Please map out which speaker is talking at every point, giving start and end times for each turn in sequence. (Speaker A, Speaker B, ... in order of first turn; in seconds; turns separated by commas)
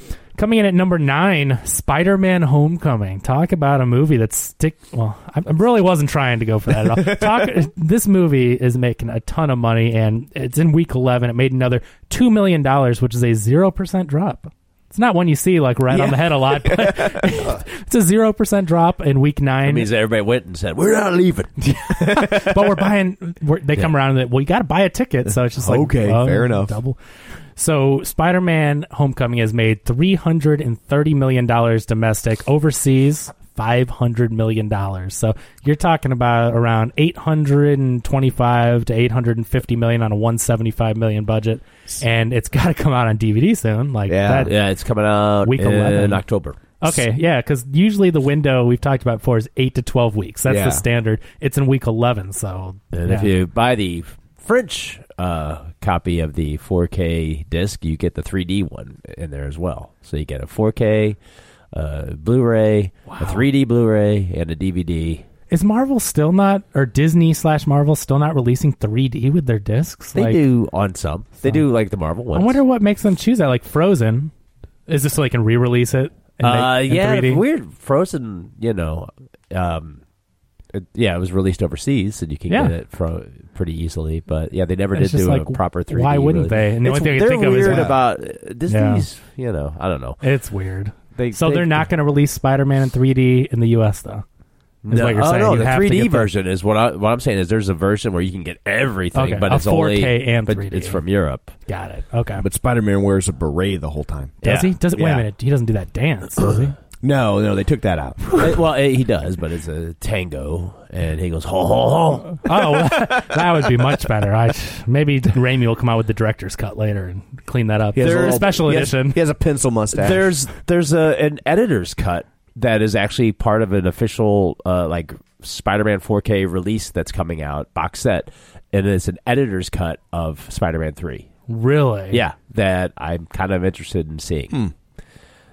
Speaker A: 0.4-19.9, Speaker B: 6.8-7.4, Speaker B: 15.9-17.6, Speaker C: 19.6-21.6, Speaker A: 21.6-27.0, Speaker B: 25.2-26.7, Speaker A: 27.6-44.5, Speaker B: 44.1-44.5, Speaker C: 44.4-46.6, Speaker A: 45.4-46.2, Speaker A: 46.8-53.3, Speaker B: 50.5-50.8, Speaker C: 52.9-61.2, Speaker C: 61.7-65.2, Speaker A: 63.1-63.4, Speaker A: 65.5-70.4, Speaker C: 70.1-72.6, Speaker A: 72.3-74.3, Speaker A: 74.9-77.4, Speaker C: 76.4-80.0, Speaker C: 80.7-90.2, Speaker A: 82.5-82.7, Speaker A: 84.9-87.9, Speaker B: 87.6-88.0, Speaker A: 88.7-89.0, Speaker A: 90.2-94.2, Speaker C: 91.2-91.9, Speaker C: 94.8-101.5, Speaker A: 94.9-96.3, Speaker A: 99.1-101.0, Speaker A: 101.7-102.4, Speaker B: 102.4-105.2, Speaker A: 104.4-106.7, Speaker B: 107.0-108.5, Speaker C: 108.3-112.5, Speaker A: 112.4-119.2, Speaker B: 117.9-120.3, Speaker C: 118.0-118.5, Speaker C: 119.9-131.3, Speaker A: 131.5-132.2, Speaker C: 132.1-134.6